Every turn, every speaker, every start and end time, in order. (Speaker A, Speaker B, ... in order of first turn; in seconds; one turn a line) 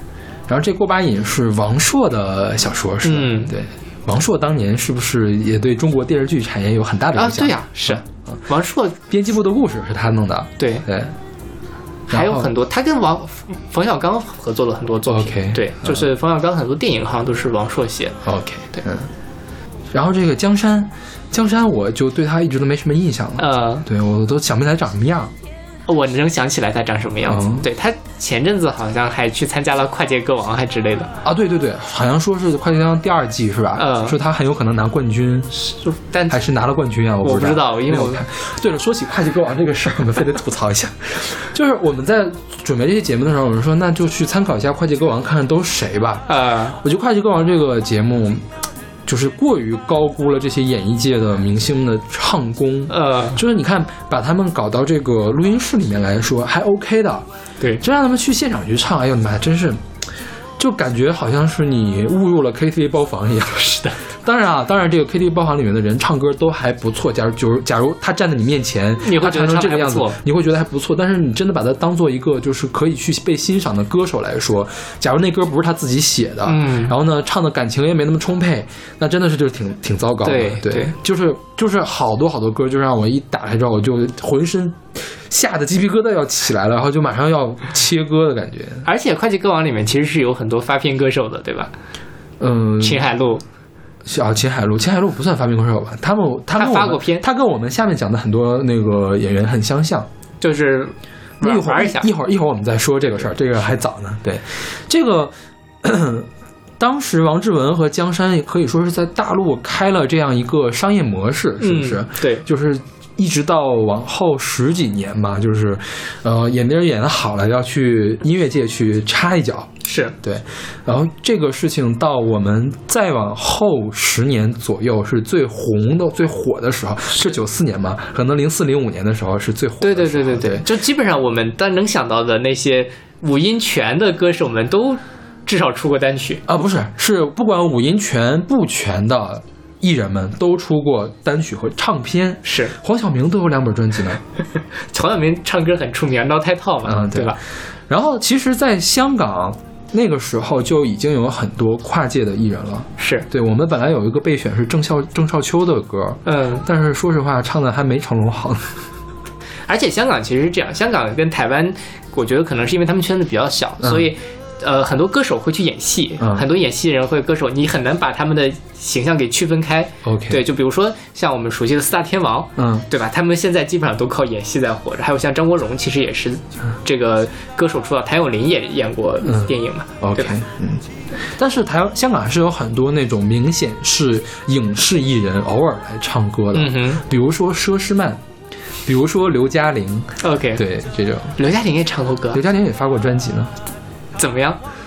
Speaker A: 0.5-8.4
Speaker B: 3.0-3.5
Speaker B: 7.2-9.0
Speaker A: 9.1-11.1
Speaker B: 10.6-10.8
Speaker A: 12.1-12.5
Speaker B: 12.1-18.2
Speaker A: 15.1-16.1
Speaker A: 18.2-19.1
Speaker A: 19.9-25.3
Speaker B: 23.4-23.8
Speaker B: 25.9-31.1
Speaker A: 27.2-27.7
Speaker A: 31.2-35.5
Speaker B: 33.8-34.2
Speaker B: 35.6-36.4
Speaker A: 36.3-48.5
Speaker B: 37.2-38.2
Speaker B: 46.3-46.8
Speaker A: 49.0-57.2
Speaker B: 52.9-53.4
Speaker A: 57.8-59.8
Speaker A: 60.6-88.8
Speaker B: 63.5-64.0
Speaker B: 69.0-70.2
Speaker B: 76.5-76.9
Speaker B: 80.2-80.9
Speaker B: 88.8-91.7
Speaker A: 92.4-93.1
Speaker B: 92.8-93.4
Speaker A: 94.0-100.1
Speaker B: 96.5-97.2
Speaker B: 100.4-102.1
Speaker A: 101.4-130.6
Speaker B: 111.6-112.4
Speaker B: 119.8-120.1
Speaker B: 129.8-136.4
Speaker A: 136.5-144.2
Speaker B: 142.4-142.7
Speaker B: 144.9-147.4
Speaker A: 146.8-158.8
Speaker B: 153.0-153.2
Speaker B: 156.2-156.6
Speaker B: 159.7-180.3
Speaker A: 163.8-164.1
Speaker A: 166.2-166.4
Speaker A: 170.0-170.4
Speaker A: 172.6-172.8
Speaker A: 179.2-188.2
Speaker B: 186.5-187.0
Speaker A: 188.8-191.4
Speaker B: 190.2-190.6
Speaker B: 191.3-192.4
Speaker A: 192.3-193.5
Speaker B: 194.2-194.6